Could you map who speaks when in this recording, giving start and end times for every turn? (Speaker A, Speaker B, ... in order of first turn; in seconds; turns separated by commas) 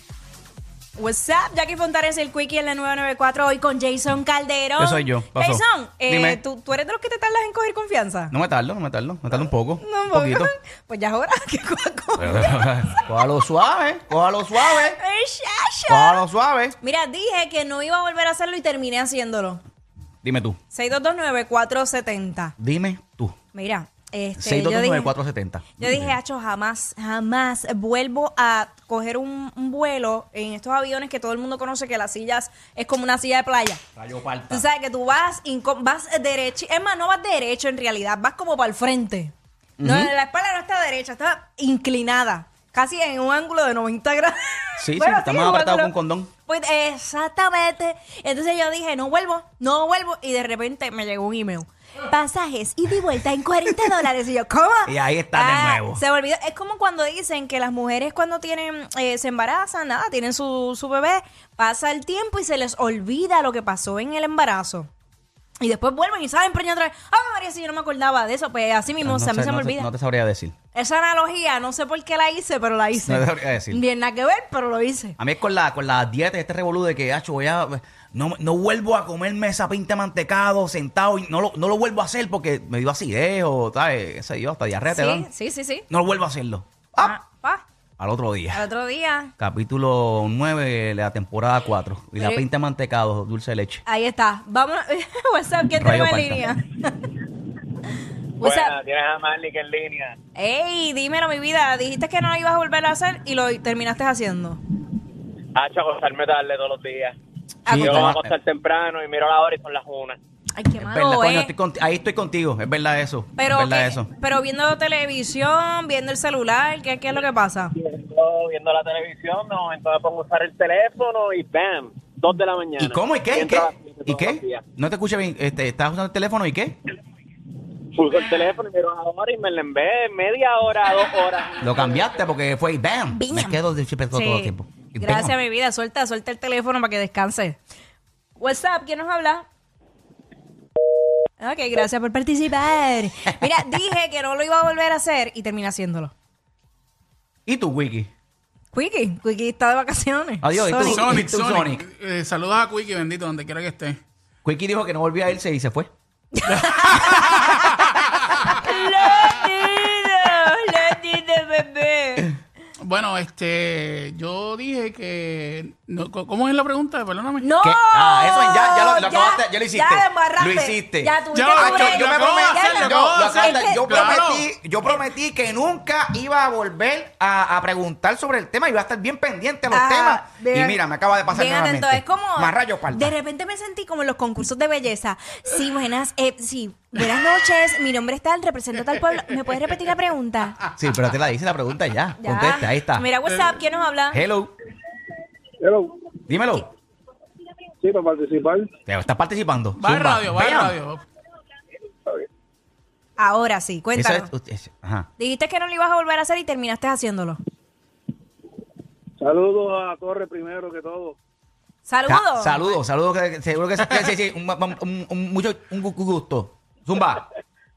Speaker A: 1.0-8.3, Speaker B: 4.8-6.4, Speaker B: 8.3-10.5, Speaker A: 9.8-13.1, Speaker B: 12.2-15.0, Speaker A: 14.5-16.2, Speaker B: 15.9-16.8, Speaker A: 16.8-19.6, Speaker B: 20.2-20.6, Speaker A: 20.7-22.5, Speaker B: 22.6-23.4, Speaker A: 23.5-25.1, Speaker B: 24.4-26.2, Speaker A: 25.8-33.8, Speaker B: 34.0-34.6, Speaker A: 34.5-45.9, Speaker B: 39.8-40.1, Speaker B: 44.8-46.3, Speaker A: 46.5-64.9, Speaker B: 54.9-56.0, Speaker A: 65.6-69.9, Speaker B: 69.0-70.5, Speaker A: 70.7-75.2, Speaker B: 73.0-73.8, Speaker B: 75.2-85.3, Speaker A: 84.9-85.8, Speaker B: 85.9-87.2, Speaker A: 87.0-87.6, Speaker B: 88.0-88.6, Speaker A: 88.5-89.3, Speaker B: 89.4-93.8, Speaker A: 92.2-92.4, Speaker A: 93.8-97.1, Speaker B: 95.8-96.5, Speaker A: 98.4-98.8, Speaker C: 98.4-100.2, Speaker A: 100.3-104.6, Speaker C: 105.5-107.2, Speaker A: 107.7-108.2, Speaker B: 107.7-108.3, Speaker C: 107.8-110.2, Speaker A: 110.5-111.5, Speaker B: 110.8-114.1, Speaker A: 113.4-117.7, Speaker C: 117.8-124.6, Speaker B: 122.8-126.8, Speaker C: 127.9-132.0, Speaker B: 131.6-135.3, Speaker A: 133.1-133.6, Speaker A: 134.1-137.6, Speaker A: 138.4-139.5, Speaker A: 141.4-146.1, Speaker B: 147.5-148.1, Speaker A: 148.7-151.1, Speaker B: 150.4-151.9, Speaker D: 150.8-154.0, Speaker B: 154.4-155.9, Speaker A: 156.3-157.7, Speaker D: 156.6-157.6, Speaker A: 158.3-162.3, Speaker D: 162.8-167.5, Speaker A: 167.4-174.2, Speaker B: 167.6-183.1, Speaker D: 171.3-174.4, Speaker A: 179.7-190.6, Speaker B: 190.8-193.1, Speaker A: 192.2-194.2, Speaker B: 194.1-194.5, Speaker E: 195.6-195.9, Speaker B: 196.3-196.7, Speaker E: 197.8-198.7, Speaker B: 198.9-200.8, Speaker D: 199.8-201.0, Speaker A: 203.2-204.3, Speaker B: 203.9-205.1, Speaker A: 205.2-207.4, Speaker E: 209.2-211.2, Speaker A: 211.9-212.8, Speaker B: 212.1-217.2